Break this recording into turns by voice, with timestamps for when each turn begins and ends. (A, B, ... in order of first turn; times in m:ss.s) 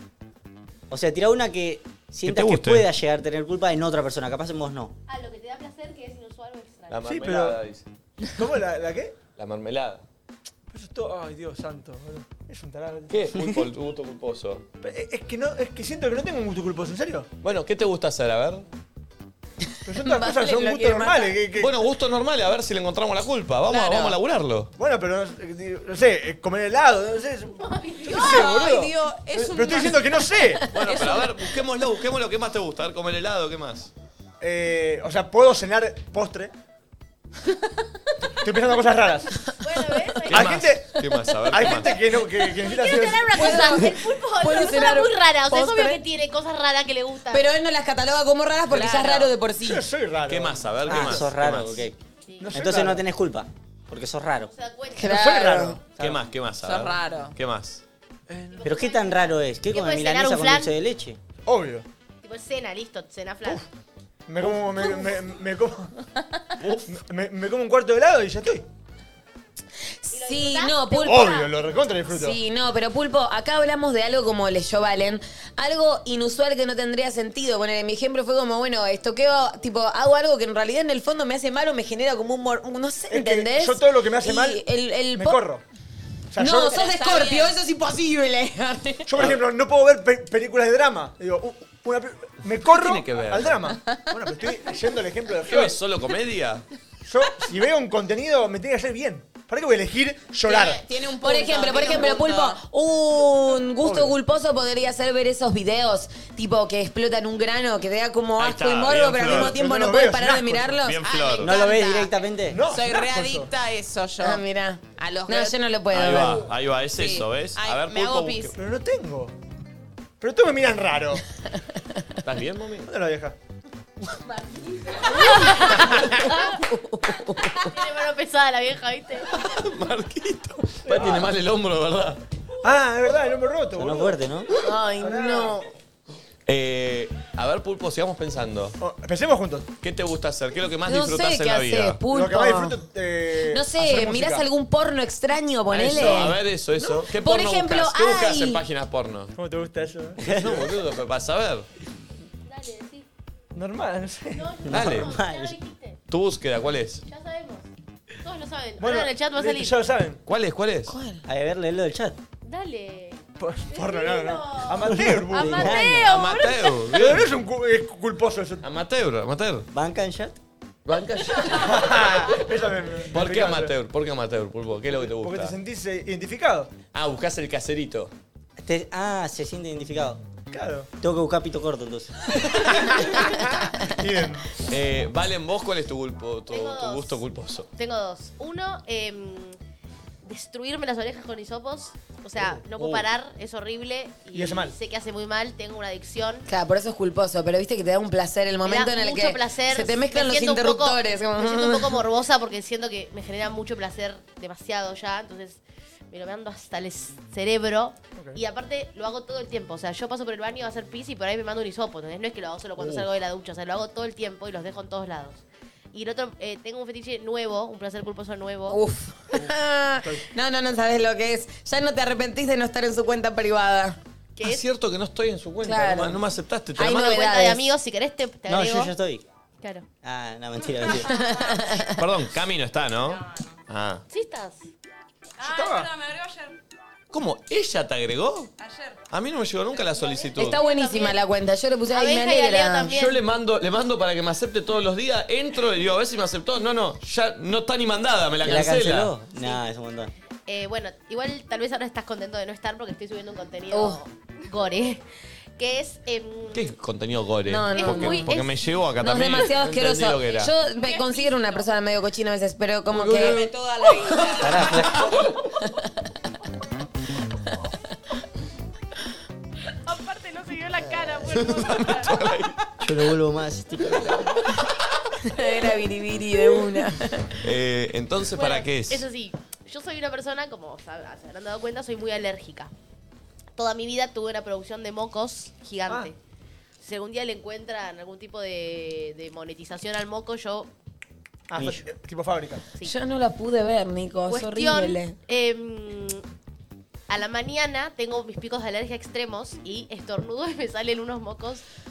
0:00.9-0:04.9 A
0:02.2-0:02.8 B
0:05.1-0:07.0 C
0:06.9-0:07.8 B
0:07.0-0:07.6 D
0:08.3-0:09.2 D
0:09.4-0:10.0 B
0:10.7-0:13.4 D
0:13.1-0:14.6 B
0:14.8-0:17.3 D
0:17.4-0:18.6 B
0:19.8-0:21.8 D
0:20.2-0:21.3 E
0:21.6-0:24.7 B
0:23.7-0:24.2 E
0:24.8-0:30.6 D
0:27.6-0:28.4 C
0:28.0-0:30.1 E
0:30.7-0:33.9 B
0:30.8-0:31.2 E
0:34.4-0:36.5 D
0:38.4-0:39.3 D
0:39.6-0:40.6 C
0:40.3-0:42.1 B
0:40.3-0:41.0 D
0:41.5-0:43.8 D
0:42.6-0:47.5 C
0:43.3-0:46.0 F
0:47.3-0:49.8 F
0:48.7-0:49.3 E
0:49.6-0:51.2 D
0:50.3-0:51.8 B
0:50.8-0:52.0 A
0:52.2-0:52.6 C
0:52.4-0:53.0 D
0:52.5-0:54.5 A
0:54.5-0:55.4 C
0:55.0-0:55.8 F
0:55.0-0:55.8 D
0:56.0-0:57.8 B
0:56.6-0:57.3 E
0:58.3-0:58.7 D
0:58.5-1:00.7 C
0:58.6-1:01.2 A
1:01.4-1:01.8 D
1:02.2-1:03.6 C
1:04.3-1:05.9 D
1:06.6-1:06.9 B
1:06.9-1:08.6 D
1:10.0-1:11.4 F
1:10.1-1:11.5 C
1:11.0-1:12.4 D
1:12.1-1:25.4 F
1:23.1-1:25.6 D
1:26.3-1:26.8 D
1:26.4-1:29.1 F
1:26.7-1:27.6 E
1:29.1-1:35.8 D
1:32.6-1:33.7 B
1:35.4-1:36.6 B
1:37.0-1:40.8 D
1:40.4-1:42.6 E
1:41.2-1:51.0 F
1:43.8-1:44.1 D
1:48.4-1:49.6 B
1:49.2-1:50.8 D
1:50.8-1:51.5 B
1:51.0-1:54.4 E
1:51.4-1:52.6 A
1:52.5-1:53.5 D
1:54.2-1:56.4 F
1:55.0-1:55.6 E
1:55.9-1:58.6 B
1:57.0-1:58.5 E
1:58.6-1:59.3 D
2:00.2-2:01.2 D
2:02.2-2:02.9 B
2:02.8-2:03.4 D
2:05.0-2:06.6 C
2:05.1-2:05.7 F
2:05.8-2:06.2 D
2:06.4-2:07.7 F
2:07.6-2:09.3 C
2:09.3-2:12.2 B
2:10.8-2:11.3 D
2:12.6-2:14.2 D
2:13.8-2:14.5 A
2:14.6-2:15.6 F
2:15.0-2:15.6 D
2:16.5-2:18.8 B
2:18.8-2:19.7 D
2:19.8-2:22.0 B
2:20.8-2:22.8 F
2:22.1-2:24.4 D
2:23.5-2:26.4 F
2:25.7-2:29.3 B
2:26.0-2:26.3 D
2:26.8-2:27.1 D
2:27.2-2:28.6 F
2:29.3-2:30.5 D
2:30.2-2:30.7 A
2:30.3-2:31.6 B
2:32.4-2:33.1 C
2:33.5-2:34.5 D
2:34.3-2:36.0 C
2:34.6-2:35.6 A
2:34.7-2:35.2 B
2:36.1-2:37.0 B
2:37.0-2:37.6 C
2:38.2-2:39.8 C
2:38.8-2:40.2 D
2:40.2-2:41.0 B
2:40.9-2:41.2 F
2:41.2-2:42.2 A
2:42.4-2:46.8 C
2:43.4-2:45.8 D
2:44.8-2:46.2 A
2:45.9-2:47.3 B
2:46.9-2:48.6 D
2:48.6-2:49.6 B
2:49.7-2:50.4 A
2:50.8-2:52.3 B
2:51.5-2:53.7 D
2:53.1-2:55.5 B
2:54.9-2:56.7 D
2:56.9-2:58.1 B
2:58.6-3:00.2 A
3:00.5-3:00.9 D
3:01.0-3:02.1 A
3:02.8-3:04.5 D
3:04.7-3:07.7 B
3:06.5-3:07.2 C
3:07.7-3:09.6 C
3:10.2-3:16.5 C
3:12.4-3:13.0 D
3:14.3-3:14.8 D
3:16.5-3:22.0 F
3:18.6-3:38.8 C
3:28.1-3:28.4 D
3:32.8-3:33.1 D
3:38.7-3:44.0 F
3:44.4-3:44.6 C
3:44.4-3:47.3 B
3:45.6-3:46.2 F
3:46.8-3:47.7 F
3:47.0-3:48.9 C
3:48.5-3:49.2 A
3:49.6-3:49.8 C
3:50.0-3:51.1 A
3:51.0-3:51.9 F
3:52.0-3:54.0 B
3:53.1-3:53.6 G
3:54.1-3:54.7 C
3:55.4-3:56.6 G
3:55.4-3:55.9 D
3:57.1-3:58.5 B
3:58.6-3:59.0 G
3:59.1-4:00.6 B
4:00.0-4:01.2 C
4:00.4-4:02.9 F
4:01.9-4:03.2 C
4:02.9-4:09.1 B
4:08.4-4:10.1 A
4:10.5-4:15.0 C
4:13.7-4:14.0 F
4:15.6-4:16.7 C
4:16.5-4:20.5 B
4:17.4-4:18.4 F
4:17.8-4:18.4 C
4:19.0-4:23.5 F
4:22.9-4:23.4 B
4:23.0-4:24.6 E
4:24.0-4:24.9 B
4:24.4-4:25.1 A
4:29.9-4:31.7 C
4:31.2-4:32.5 B
4:32.8-4:34.2 A
4:35.2-4:37.4 F
4:37.4-4:39.0 B
4:38.3-4:42.7 C
4:43.6-4:46.1 C
4:46.8-4:50.7 C
4:51.5-4:52.6 D
4:51.6-4:51.8 A
4:52.8-4:55.2 F
4:54.3-4:56.2 C
4:57.1-5:01.6 C